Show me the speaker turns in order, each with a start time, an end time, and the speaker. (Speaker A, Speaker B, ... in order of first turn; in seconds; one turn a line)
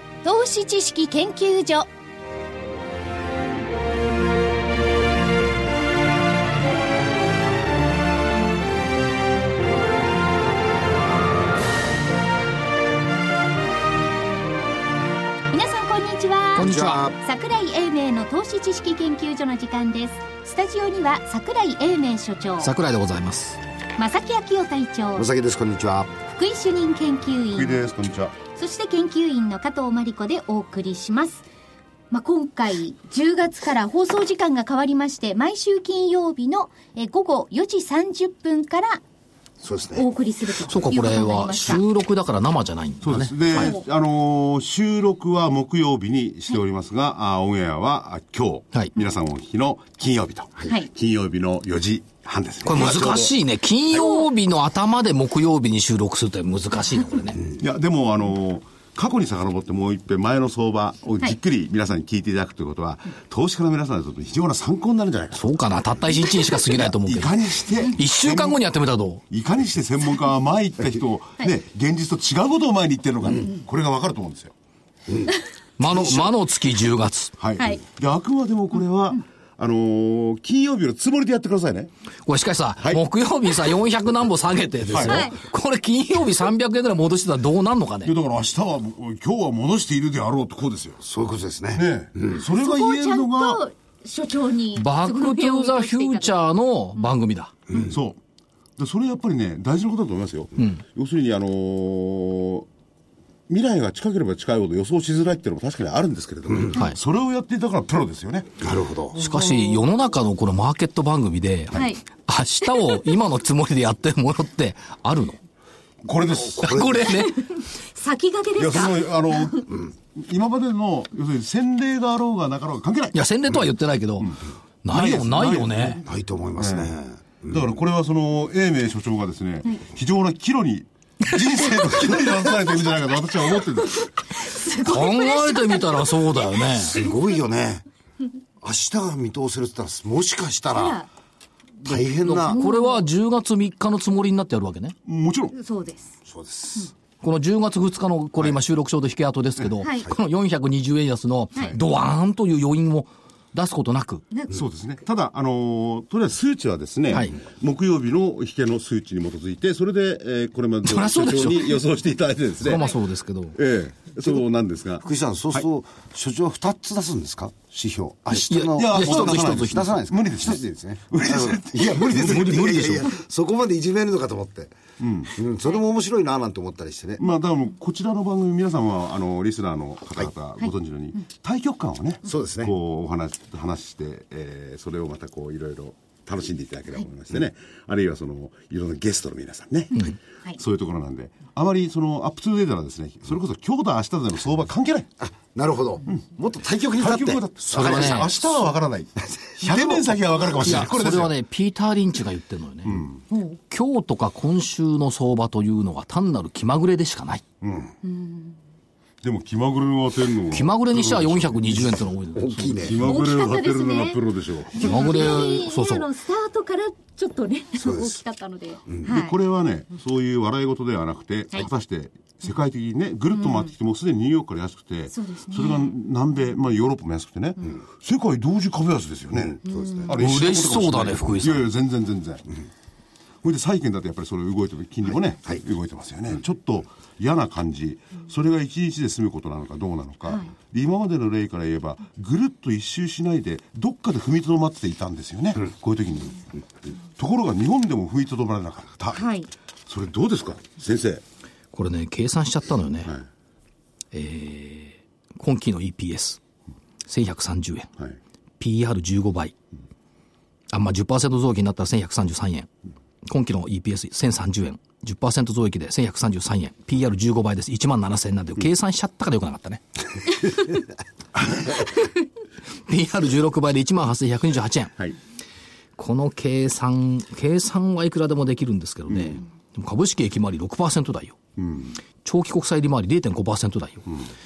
Speaker A: 0.2-1.9
Speaker A: 15.5-22.7
Speaker B: 16.6-17.1
Speaker C: 16.6-17.2
Speaker B: 22.6-23.6
Speaker A: 24.0-25.3
Speaker C: 25.1-26.2
Speaker A: 26.3-27.8
Speaker D: 27.5-28.4
Speaker A: 28.4-31.5
Speaker A: 32.1-39.0
Speaker C: 39.6-40.1
Speaker A: 39.9-41.8
Speaker B: 40.7-43.7
Speaker D: 43.0-53.4
Speaker A: 43.5-43.9
Speaker B: 52.6-57.5
Speaker A: 53.9-54.3
Speaker D: 57.5-65.5
Speaker B: 65.4-69.2
Speaker D: 66.7-68.6
Speaker D: 69.3-74.5
Speaker B: 75.8-77.3
Speaker D: 77.4-81.9
Speaker A: 77.6-77.8
Speaker B: 82.3-88.1
Speaker D: 84.9-85.3
Speaker A: 85.0-85.4
Speaker D: 88.0-91.0
Speaker C: 91.0-92.3
Speaker D: 91.7-93.6
Speaker A: 92.3-96.4
Speaker B: 94.8-97.5
Speaker D: 97.8-98.2
Speaker D: 98.8-102.7
Speaker D: 103.5-108.6
Speaker C: 108.6-109.2
Speaker B: 109.2-115.4
Speaker A: 111.7-112.0
Speaker D: 116.0-117.0
Speaker C: 116.5-117.2
Speaker B: 116.6-117.5
Speaker A: 117.1-119.7
Speaker D: 118.6-123.3
Speaker B: 123.1-126.0
Speaker D: 124.9-126.9
Speaker C: 126.0-127.6
Speaker D: 127.5-134.1
Speaker A: 134.0-136.1
Speaker B: 134.7-137.0
Speaker C: 136.8-137.8
Speaker C: 138.6-141.0
Speaker A: 140.7-141.1
Speaker C: 141.8-142.6
Speaker B: 141.9-144.9
Speaker A: 142.3-143.1
Speaker D: 145.1-145.5
Speaker A: 145.5-146.2
Speaker C: 146.2-146.9
Speaker B: 147.2-154.2
Speaker A: 149.8-150.1
Speaker A: 154.3-154.6
Speaker D: 154.5-162.9
Speaker B: 157.1-157.4
Speaker B: 160.8-161.8
Speaker B: 162.6-163.6
Speaker D: 163.6-165.7
Speaker C: 165.0-174.7
Speaker B: 168.3-169.9
Speaker D: 168.7-173.0
Speaker B: 172.1-173.1
Speaker D: 175.0-175.3
Speaker C: 175.3-177.2
Speaker D: 177.2-195.1
Speaker C: 182.2-182.7
Speaker C: 195.2-198.4
Speaker D: 197.0-201.3
Speaker B: 197.7-198.5
Speaker C: 199.2-200.5
Speaker B: 200.6-203.1
Speaker D: 202.9-203.2
Speaker A: 203.3-203.6
Speaker B: 203.7-207.4
Speaker D: 207.6-207.9
Speaker A: 208.0-208.6
Speaker D: 209.2-211.9
Speaker B: 210.5-212.9
Speaker C: 212.3-213.1
Speaker D: 212.8-215.4
Speaker A: 213.0-219.4
Speaker B: 214.8-216.1
Speaker C: 217.8-218.2
Speaker D: 219.1-232.6
Speaker A: 223.3-223.7
Speaker A: 225.1-225.9
Speaker C: 229.7-230.1
Speaker A: 229.7-230.1
Speaker B: 230.1-231.7
Speaker D: 233.4-246.6
Speaker A: 240.2-240.5
Speaker D: 247.2-249.2
Speaker A: 249.1-249.5
Speaker D: 249.9-251.2
Speaker B: 251.7-253.1
Speaker B: 254.1-256.4
Speaker B: 257.1-257.9
Speaker B: 258.6-259.5
Speaker B: 260.7-262.7
Speaker B: 263.2-269.8
Speaker B: 272.9-275.0
Speaker B: 276.0-281.4
Speaker D: 279.1-279.4
Speaker D: 281.6-282.0
Speaker B: 282.2-284.1